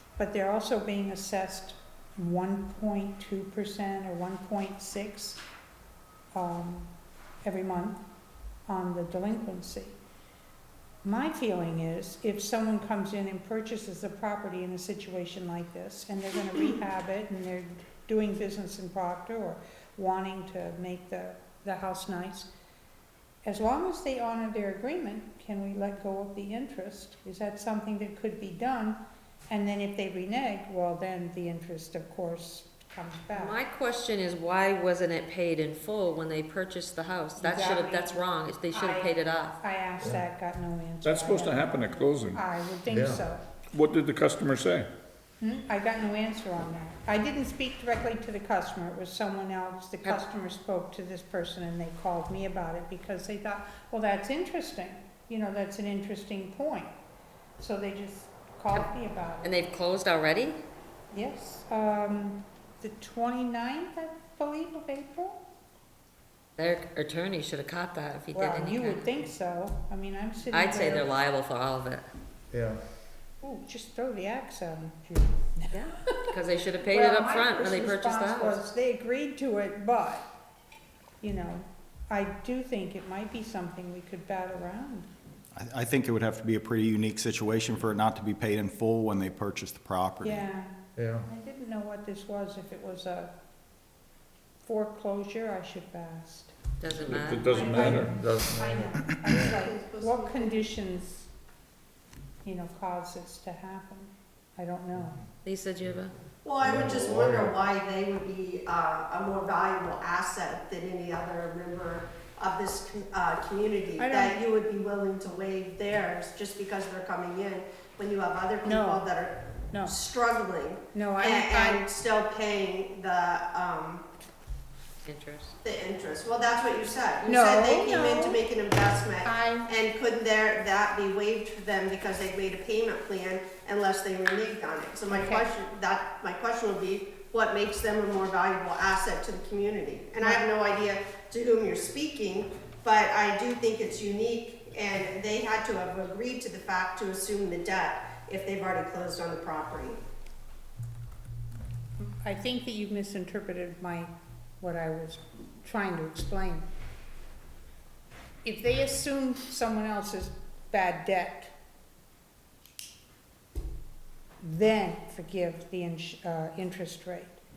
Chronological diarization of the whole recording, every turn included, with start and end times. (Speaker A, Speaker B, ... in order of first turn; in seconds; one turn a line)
Speaker A: 0.2-5.4
Speaker A: 6.3-6.9
Speaker A: 7.4-8.0
Speaker A: 8.7-10.0
Speaker A: 11.0-22.5
Speaker A: 23.4-33.6
Speaker B: 33.3-39.6
Speaker A: 37.4-41.8
Speaker C: 40.0-40.2
Speaker D: 41.0-42.4
Speaker A: 42.3-43.4
Speaker C: 42.9-43.2
Speaker D: 43.7-44.9
Speaker A: 45.4-56.9
Speaker A: 57.6-59.5
Speaker B: 59.4-60.6
Speaker A: 61.1-65.4
Speaker B: 66.6-69.0
Speaker A: 68.3-71.1
Speaker B: 70.5-72.1
Speaker C: 72.5-72.8
Speaker A: 73.4-76.2
Speaker B: 75.7-78.6
Speaker A: 76.9-80.3
Speaker A: 81.2-85.1
Speaker E: 85.5-90.5
Speaker A: 90.2-90.8
Speaker C: 91.0-91.3
Speaker A: 91.3-93.3
Speaker A: 94.6-96.5
Speaker B: 96.8-97.6
Speaker D: 97.0-98.4
Speaker A: 97.5-101.3
Speaker C: 97.8-99.6
Speaker F: 99.5-100.7
Speaker A: 102.4-105.2
Speaker B: 105.4-106.1
Speaker F: 106.4-124.0
Speaker C: 106.6-107.5
Speaker A: 114.0-114.4
Speaker A: 118.6-119.0
Speaker A: 120.9-121.8
Speaker B: 125.0-125.5
Speaker F: 125.6-150.0
Speaker A: 127.2-128.4
Speaker A: 129.2-129.7
Speaker A: 135.1-135.4
Speaker A: 152.0-156.7
Speaker A: 158.4-161.5
Speaker A: 164.4-167.4